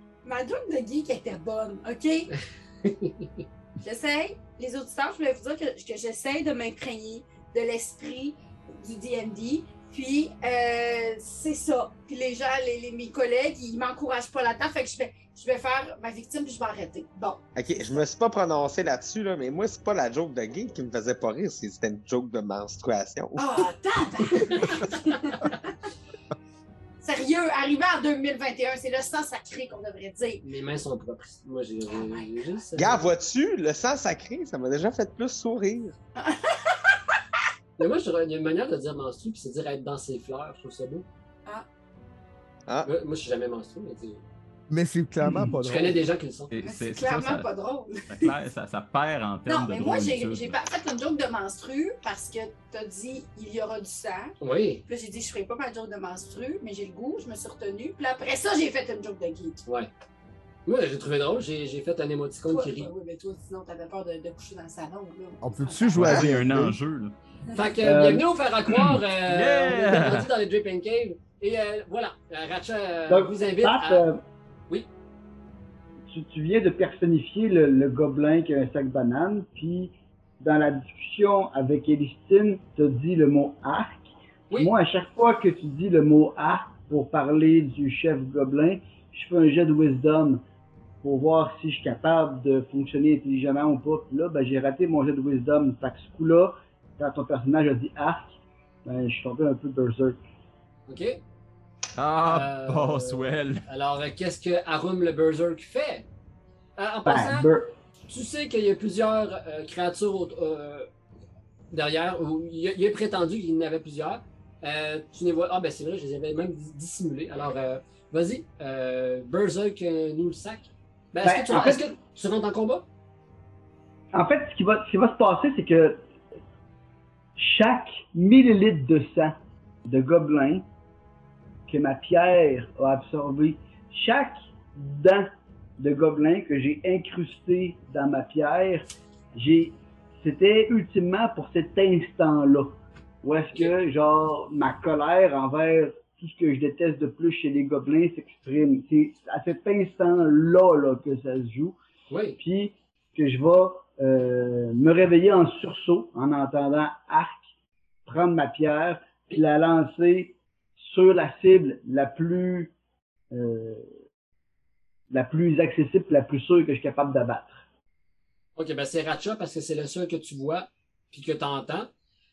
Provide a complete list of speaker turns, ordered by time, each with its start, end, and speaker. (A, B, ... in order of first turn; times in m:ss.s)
0:00.2-0:02.3 A
0:02.8-0:03.4 B
0:03.8-0:17.4 A
0:17.6-0:23.7 C
0:23.4-0:25.7 A
0:27.0-0:30.4 A
0:30.4-0:33.1 B
0:31.9-0:32.3 A
0:32.8-0:35.9 C
0:36.2-0:36.8 A
0:37.8-0:41.1 B
0:42.7-0:42.9 C
0:42.8-0:44.2 B
0:44.7-0:46.0 D
0:45.3-0:45.5 E
0:45.6-0:46.5 B
0:46.5-0:47.5 F
0:46.6-0:48.3 A
0:48.1-0:50.6 F
0:49.5-0:54.4 A
0:54.4-0:54.8 B
0:54.9-0:59.6 A
0:59.7-0:59.9 B
1:00.7-1:02.9 B
1:02.5-1:06.2 A
1:05.4-1:06.8 D
1:06.0-1:07.1 F
1:07.6-1:14.1 B
1:07.8-1:09.0 E
1:09.3-1:10.3 F
1:13.1-1:14.2 E
1:16.1-1:30.4 E
1:31.0-1:40.2 E
1:40.9-1:41.2 B
1:42.0-1:43.6 F
1:42.3-1:46.0 B
1:46.8-1:47.5 B
1:47.0-1:47.7 E
1:48.1-1:50.9 B
1:51.7-2:02.8 B
2:01.2-2:01.9 E
2:04.1-2:06.0 E
2:07.4-2:10.7 E
2:11.7-2:31.8 E
2:32.1-2:32.4 B
2:32.4-2:37.4 E
2:38.1-2:42.7 E
2:43.3-2:43.9 E
2:45.1-2:47.6 E
2:48.6-2:51.9 B